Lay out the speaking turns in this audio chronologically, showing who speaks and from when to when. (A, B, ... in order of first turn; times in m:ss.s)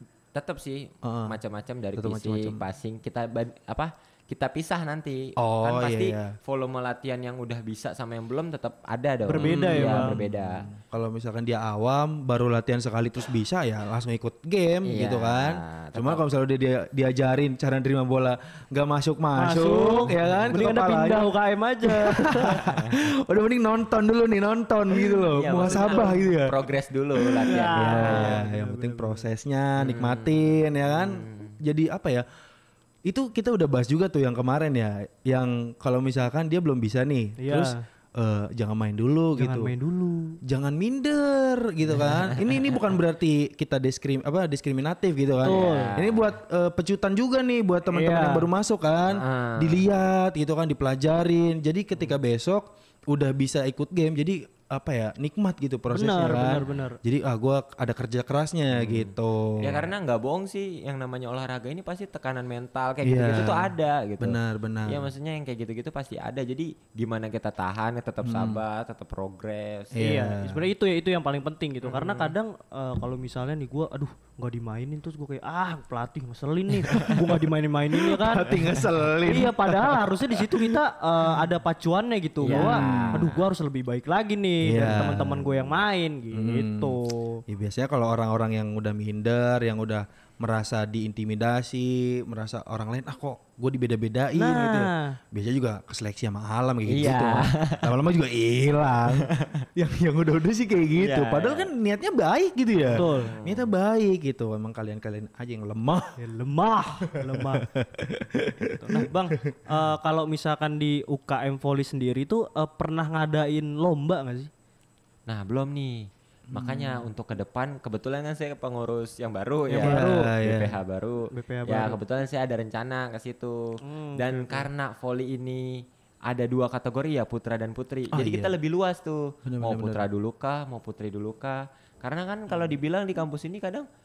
0:00.3-0:10.7 A
0:01.0-0:01.4 B
0:02.0-0:02.6 B
0:05.4-0:06.4 B
0:09.3-0:10.2 C
0:09.4-0:26.6 B
0:14.9-0:16.2 A
0:19.4-0:22.7 C
0:20.2-0:20.5 A
0:22.5-0:23.0 A
0:25.3-0:28.4 A
0:27.4-0:32.2 B
0:27.5-0:29.3 C
0:29.8-0:31.6 A
0:33.1-0:39.7 B
0:37.4-0:37.8 C
0:39.4-0:40.4 C
0:40.4-0:59.9 B
0:41.9-0:42.8 A
0:45.4-0:46.0 C
0:45.4-0:46.3 A
0:47.9-0:48.5 C
0:49.1-0:49.8 A
0:55.9-0:57.0 C
0:58.7-1:10.0 A
1:03.0-1:05.1 B
1:08.2-1:08.6 B
1:10.0-1:10.7 B
1:10.0-1:27.4 C
1:11.8-1:12.3 A
1:16.9-1:17.4 B
1:17.9-1:20.8 B
1:22.4-1:23.4 A
1:22.4-1:23.3 B
1:24.6-1:25.8 B
1:26.3-1:27.0 B
1:27.5-1:46.2 B
1:34.4-1:35.2 C
1:36.9-1:37.9 A
1:39.1-1:39.6 A
1:41.0-1:41.7 A
1:42.9-1:43.3 C
1:42.9-1:43.7 A
1:46.2-1:47.7 C
1:47.1-1:49.5 B
1:48.7-1:54.5 C
1:55.3-2:13.9 A
1:56.5-1:57.1 B
1:59.7-2:00.3 C
1:59.8-2:00.8 B
2:01.3-2:02.0 C
2:03.8-2:04.7 C
2:08.1-2:08.6 B
2:09.4-2:10.0 B